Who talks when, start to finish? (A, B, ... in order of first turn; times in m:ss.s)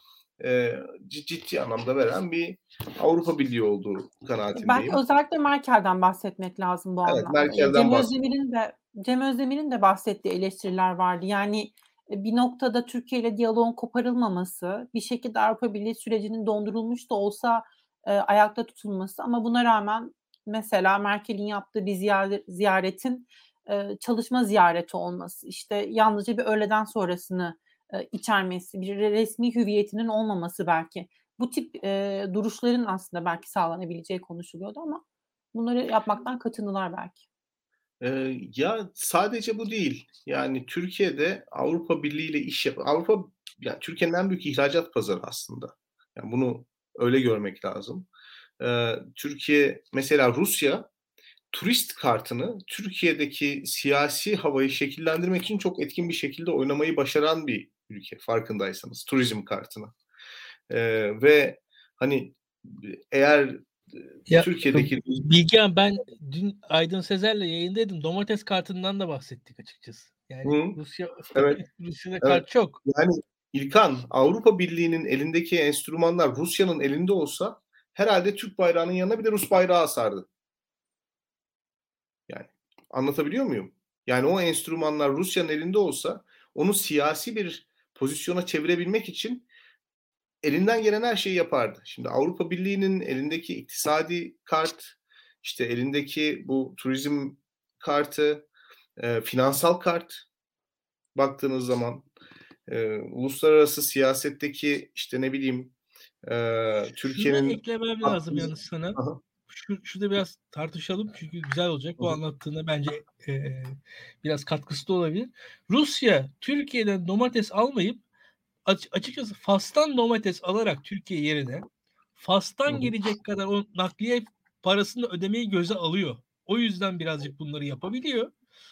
0:00.4-0:05.0 A
0:04.5-0:37.2 B
0:07.0-0:08.1 A
0:38.0-0:48.1 A
0:48.6-0:50.9 A
0:51.5-0:59.9 A
1:00.7-1:05.2 A
1:04.3-1:12.8 C
1:10.4-1:10.8 A
1:11.3-1:11.6 A
1:12.2-1:20.2 A
1:22.3-1:29.4 A
1:30.4-1:38.5 A
1:39.0-1:40.2 A
1:41.1-1:42.0 A
1:42.7-1:45.7 A
1:46.2-1:49.2 A
1:47.1-1:58.0 C
1:58.6-2:08.3 C